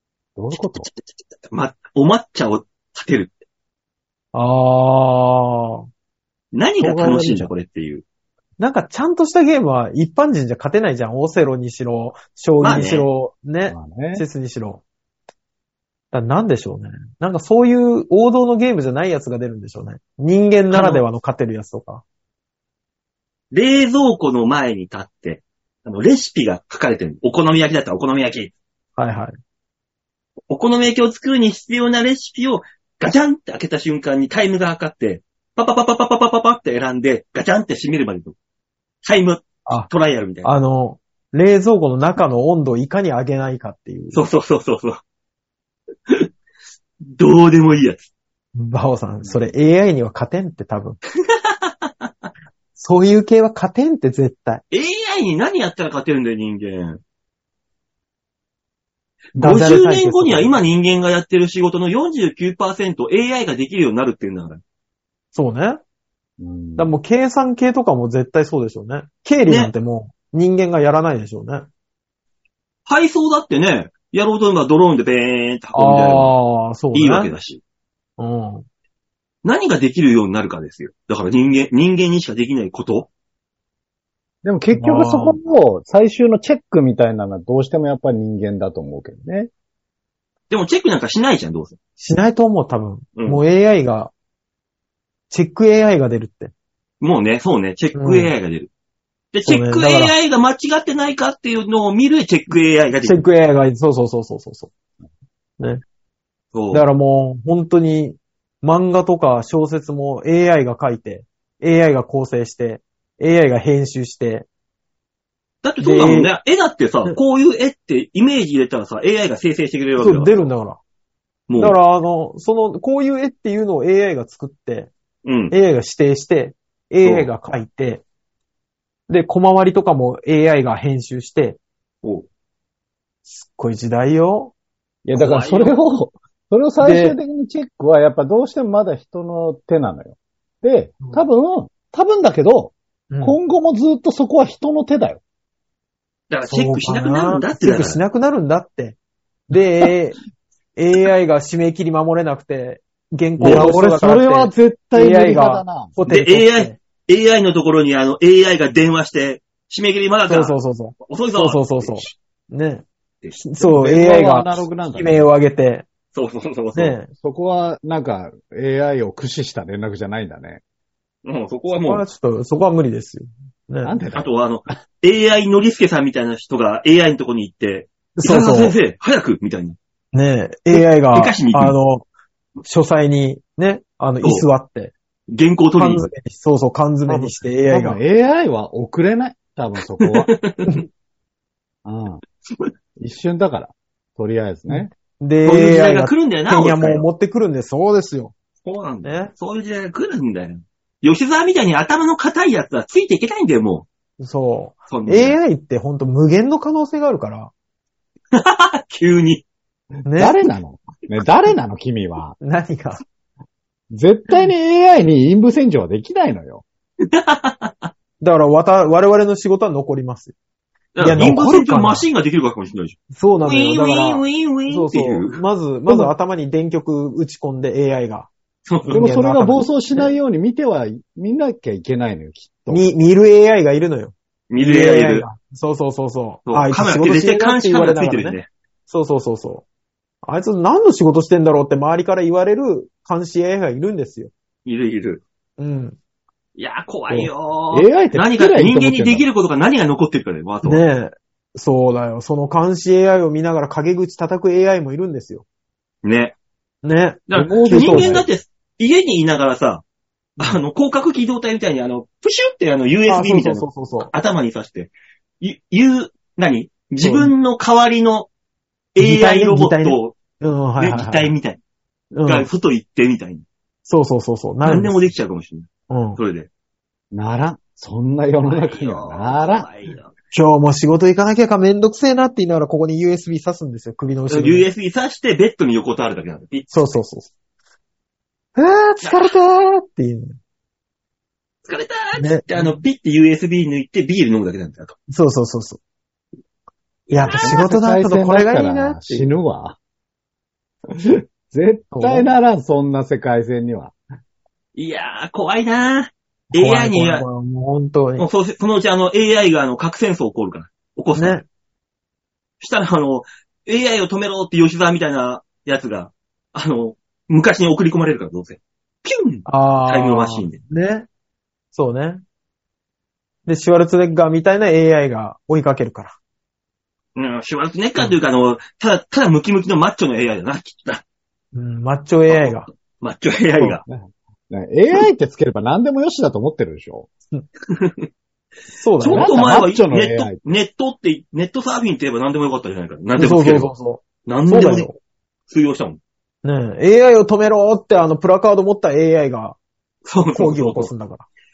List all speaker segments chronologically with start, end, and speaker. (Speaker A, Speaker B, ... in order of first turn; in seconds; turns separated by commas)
Speaker A: 0.4-0.9, Speaker B: 0.6-3.4, Speaker C: 4.3-5.8, Speaker B: 6.5-8.0, Speaker A: 6.8-7.5, Speaker C: 8.6-14.8, Speaker B: 12.6-13.1, Speaker A: 13.7-14.2, Speaker C: 16.1-22.0, Speaker B: 20.7-21.0, Speaker B: 23.5-28.5, Speaker C: 29.0-29.3, Speaker B: 30.5-38.4, Speaker B: 39.0-40.6, Speaker C: 40.4-44.2, Speaker B: 44.1-45.0, Speaker B: 47.1-48.1, Speaker C: 48.5-51.0, Speaker B: 51.3-52.1, Speaker C: 52.8-54.6, Speaker B: 54.7-57.0, Speaker C: 59.4-60.6, Speaker B: 59.4-64.6, Speaker C: 65.3-65.8, Speaker A: 66.4-66.9, Speaker C: 66.8-71.7, Speaker B: 72.9-76.3, Speaker C: 75.7-77.3, Speaker B: 76.9-77.6, Speaker C: 78.2-78.6, Speaker B: 79.4-83.1, Speaker A: 84.4-89.5, Speaker C: 84.7-85.4, Speaker B: 90.5-91.8, Speaker C: 92.0-94.1, Speaker B: 93.2-93.4, Speaker C: 95.3-96.5, Speaker B: 97.0-98.7, Speaker C: 98.0-98.3, Speaker B: 99.3-103.2, Speaker C: 99.5-100.1, Speaker C: 103.0-104.7, Speaker B: 106.5-106.8, Speaker C: 106.7-114.5, Speaker B: 115.6-120.5, Speaker C: 115.8-116.3, Speaker C: 120.0-120.8, Speaker B: 121.5-121.8, Speaker C: 121.5-124.9, Speaker B: 125.2-125.5, Speaker C: 125.5-128.0, Speaker B: 127.0-127.3, Speaker C: 129.1-131.6, Speaker C: 133.2-134.5, Speaker A: 135.1-145.2, Speaker B: 135.1-135.8, Speaker C: 136.8-137.2, Speaker C: 143.1-143.4, Speaker B: 146.3-148.0, Speaker C: 146.5-149.0, Speaker C: 149.5-150.2, Speaker C: 150.8-156.8, Speaker B: 153.4-153.7, Speaker A: 153.4-155.9, Speaker B: 156.1-162.1, Speaker C: 160.3-165.9, Speaker A: 163.6-165.2, Speaker B: 166.1-167.0, Speaker C: 166.7-167.1, Speaker A: 167.2-170.6, Speaker B: 171.2-172.1, Speaker C: 171.8-174.0, Speaker A: 173.8-174.3, Speaker B: 174.1-179.8, Speaker C: 178.2-178.8, Speaker C: 180.1-182.1, Speaker B: 180.7-181.8, Speaker C: 182.6-184.9, Speaker B: 185.3-186.1, Speaker C: 185.8-188.0, Speaker A: 187.1-190.3, Speaker B: 190.0-190.8, Speaker A: 191.8-192.2, Speaker A: 193.0-194.9, Speaker C: 194.7-198.3, Speaker B: 195.4-197.0, Speaker B: 198.6-203.9, Speaker C: 199.0-199.3, Speaker C: 204.2-207.5, Speaker B: 204.9-205.4, Speaker B: 208.3-209.4, Speaker C: 210.1-210.4, Speaker A: 210.2-212.4, Speaker C: 212.4-213.0, Speaker A: 213.9-216.6, Speaker B: 217.0-217.9, Speaker C: 218.2-220.3, Speaker B: 220.9-226.1, Speaker C: 221.0-222.1, Speaker C: 223.1-228.3, Speaker B: 228.7-229.1, Speaker C: 228.8-229.7, Speaker A: 228.9-232.8, Speaker C: 232.7-238.4, Speaker B: 234.5-235.3, Speaker B: 236.4-238.5, Speaker C: 238.9-239.6, Speaker C: 240.2-244.3, Speaker B: 244.7-245.2, Speaker C: 245.6-246.0, Speaker B: 246.6-250.8, Speaker A: 247.1-249.3, Speaker C: 250.6-255.4, Speaker B: 256.0-256.3, Speaker C: 256.8-258.2, Speaker B: 257.3-259.8, Speaker A: 257.3-258.3, Speaker B: 260.4-268.3, Speaker C: 263.1-264.1, Speaker C: 267.0-267.3, Speaker B: 268.9-270.1, Speaker C: 269.0-271.3, Speaker B: 270.8-271.6, Speaker C: 272.1-272.5, Speaker B: 272.3-273.4, Speaker C: 273.9-275.1, Speaker B: 274.6-276.5, Speaker C: 275.9-276.2, Speaker A: 277.1-279.7, Speaker B: 278.4-280.1, Speaker C: 280.3-284.7, Speaker B: 284.3-287.0, Speaker C: 286.7-287.3, Speaker C: 288.6-290.4, Speaker B: 289.0-289.4, Speaker B: 291.6-294.9, Speaker C: 292.2-292.8, Speaker C: 295.1-295.8, Speaker C: 297.1-299.2, Speaker B: 297.1-297.6, Speaker A: 297.3-299.8, Speaker A: 301.0-303.9, Speaker C: 301.9-302.3, Speaker B: 304.7-307.3, Speaker C: 306.5-308.3, Speaker B: 308.2-311.4, Speaker C: 311.1-311.4, Speaker B: 312.6-320.6, Speaker C: 319.4-321.1, Speaker C: 321.7-322.2, Speaker C: 323.4-326.2, Speaker B: 327.2-331.0, Speaker C: 331.5-332.7, Speaker B: 332.3-333.8, Speaker A: 333.9-337.1, Speaker B: 337.7-338.1, Speaker C: 338.7-339.4, Speaker B: 339.0-343.7, Speaker A: 339.1-340.4, Speaker C: 343.2-345.0, Speaker B: 344.3-344.9, Speaker B: 345.5-346.0, Speaker C: 346.4-349.6, Speaker B: 350.1-350.9, Speaker C: 350.3-351.2